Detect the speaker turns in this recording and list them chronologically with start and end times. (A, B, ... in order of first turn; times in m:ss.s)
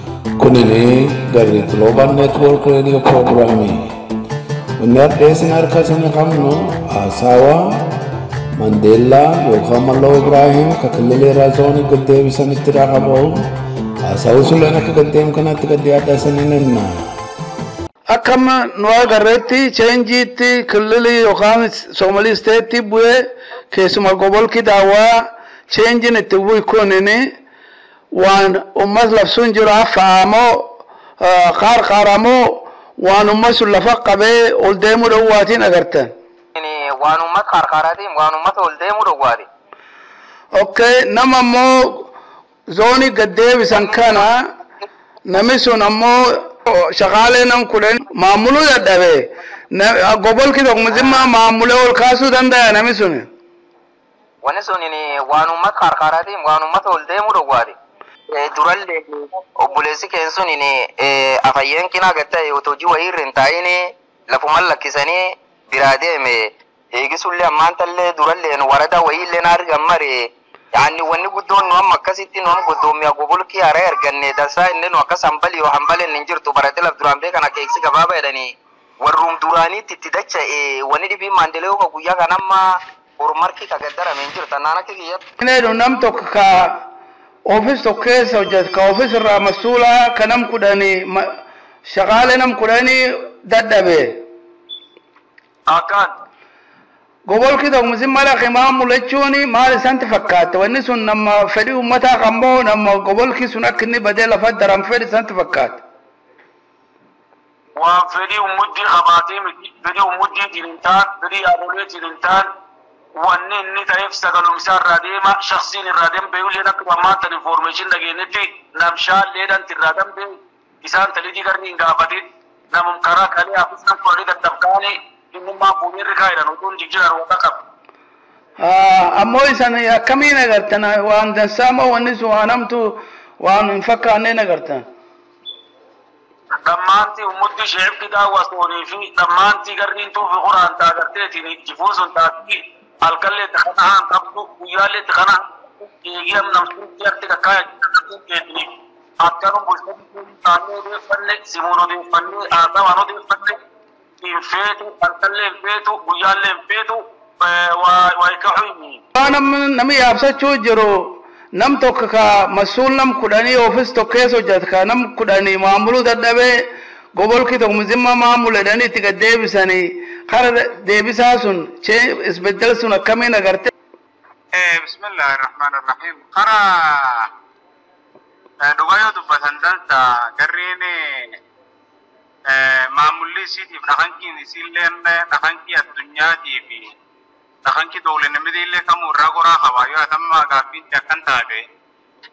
0:00.4-0:03.9 A
0:04.8-0:07.8 A
0:08.6-0:13.5 A
0:14.0-0:17.0 A
0:18.1-0:27.2 B
0:28.1-0:36.1 B
0:36.6-0:39.5 C
0:40.5-0:42.1 B
0:42.7-0:44.5 B
0:43.7-0:44.2 C
0:45.2-0:53.3 B
0:54.4-0:57.8 C
0:58.3-1:10.2 C
1:10.7-1:22.7 C
1:23.2-1:25.2 C
1:25.4-1:26.9 B
1:27.4-1:31.3 B
1:31.8-1:34.2 B
1:35.7-1:36.1 D
1:37.3-1:45.8 B
1:47.8-1:52.5 D
1:53.2-2:00.3 D
2:00.8-2:07.6 D
2:08.6-2:14.8 B
2:16.6-2:33.6 D
2:34.2-2:39.0 D
2:39.1-2:46.6 B
2:47.1-2:53.7 B
2:54.5-2:57.3 E
2:58.6-3:01.4 E
3:02.5-3:06.9 E
3:07.7-3:11.6 E